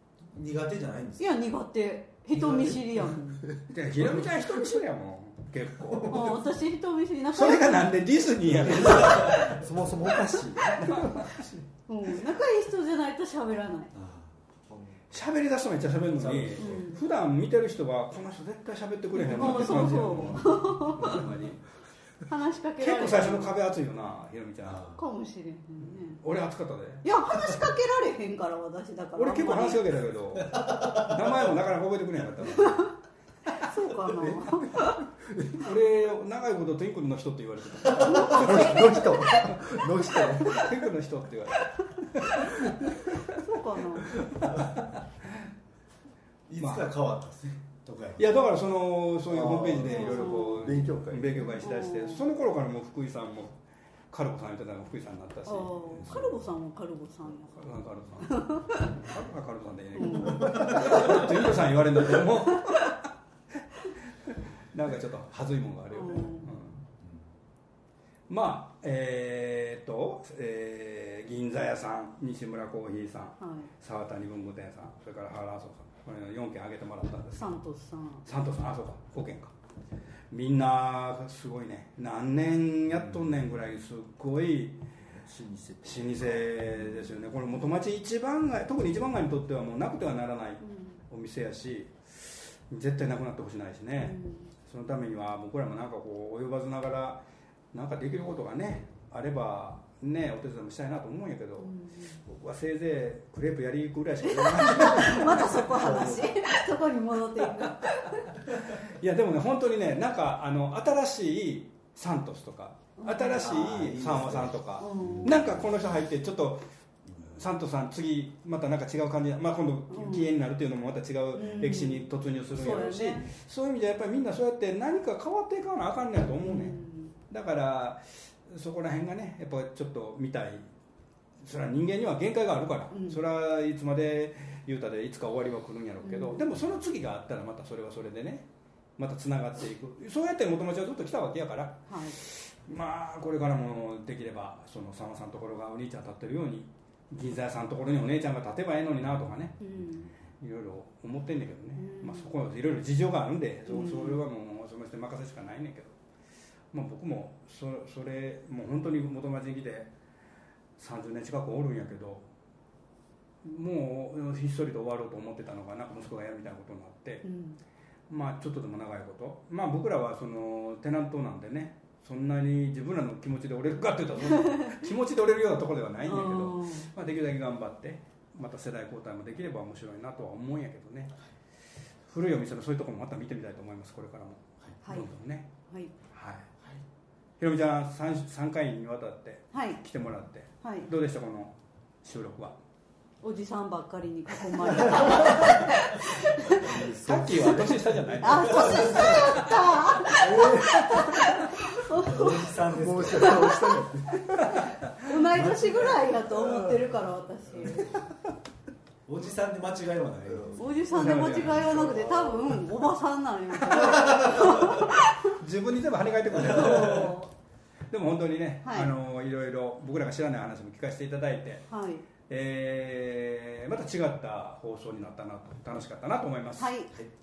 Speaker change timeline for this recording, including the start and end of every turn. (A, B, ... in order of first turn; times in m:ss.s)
0:00.3-0:01.3 A
0:01.2-0:03.5 B
0:02.4-0:02.8 A
0:03.5-0:04.0 C
0:03.7-0:06.4 D
0:06.1-0:08.0 B
0:07.3-0:09.6 D
0:08.5-0:09.6 A
0:09.0-0:11.0 C
0:10.8-0:11.4 D
0:11.9-0:13.9 B
0:13.9-0:14.3 A
0:14.7-0:15.0 C
0:15.1-0:21.6 D
0:16.2-0:16.9 A
0:16.6-0:17.0 B
0:19.1-0:21.2 B
0:19.4-0:20.4 A
0:22.3-0:23.6 B
0:22.8-0:24.8 D
0:24.6-0:25.0 A
0:25.0-0:26.2 B
0:25.8-0:27.0 D
0:27.0-0:29.8 B
0:29.2-0:32.9 D
0:30.4-0:31.2 A
0:32.6-0:32.9 B
0:33.6-0:35.0 B
0:35.5-0:43.4 D
0:38.0-0:38.3 A
0:38.1-0:40.8 C
0:38.2-0:38.8 B
0:42.5-0:44.2 B
0:44.1-0:45.0 D
0:46.5-0:48.2 A
0:46.6-0:46.9 D
0:48.2-0:56.3 D
0:49.3-0:51.7 C
0:49.8-0:50.8 B
0:51.6-0:52.2 B
0:55.5-0:57.7 B
0:57.5-1:03.0 D
0:58.3-0:59.0 B
1:00.0-1:01.3 B
1:00.3-1:01.0 A
1:04.2-1:06.8 D
1:05.9-1:06.5 B
1:08.3-1:17.6 D
1:13.4-1:13.7 B
1:17.4-1:18.2 B
1:18.2-1:19.5 D
1:20.3-1:24.8 D
1:25.0-1:26.6 C
1:25.8-1:45.7 D
1:30.6-1:31.0 B
1:34.0-1:34.5 B
1:41.6-1:42.2 B
1:44.2-1:48.4 B
1:44.7-1:46.4 C
1:47.6-1:47.9 D
1:48.6-1:56.6 D
1:53.0-1:53.6 B
1:53.4-1:55.7 A
1:54.8-1:55.4 B
1:57.3-2:10.7 D
1:59.9-2:00.4 B
2:01.3-2:03.3 B
2:06.4-2:07.1 B
2:11.4-2:18.5 D
2:12.9-2:13.2 B
2:16.0-2:16.5 B
2:19.0-2:29.7 D
2:21.9-2:22.2 B
2:29.6-2:30.1 B
2:30.4-2:36.0 D
2:31.8-2:32.3 B
2:33.7-2:34.2 B
2:36.7-2:39.9 D
2:40.8-2:42.2 D
2:43.4-2:47.2 D
2:47.2-2:47.6 B
2:48.1-3:01.1 D
2:54.3-2:54.8 B
2:56.0-2:56.9 B
3:02.1-3:05.5 D
3:04.8-3:05.1 B
3:05.7-3:05.9 B
3:06.1-3:06.5 D
3:07.4-3:12.6 D
3:09.5-3:09.8 B
3:10.6-3:10.9 B
3:13.2-3:16.8 B
3:14.7-3:15.5 D
3:16.5-3:18.1 C
3:16.7-3:19.8 D
3:18.2-3:22.5 B
3:18.2-3:19.2 A
3:20.2-3:20.6 A
3:20.2-3:21.0 C
3:21.9-3:23.6 A
3:22.7-3:24.7 C
3:23.2-3:23.8 B
3:24.4-3:25.0 D
3:25.0-3:27.9 B
3:25.3-3:26.2 A
3:26.4-3:26.8 C
3:29.1-3:30.8 A
3:30.3-3:30.7 C
3:30.6-3:35.4 B
3:30.9-3:32.8 D
3:31.7-3:31.9 C
3:33.6-3:37.2 D
3:36.4-3:37.3 B
3:36.5-3:36.8 A
3:37.9-3:41.7 D
3:38.6-3:38.9 B
3:41.7-3:42.0 B
3:42.2-3:46.8 D
3:46.6-3:46.9 B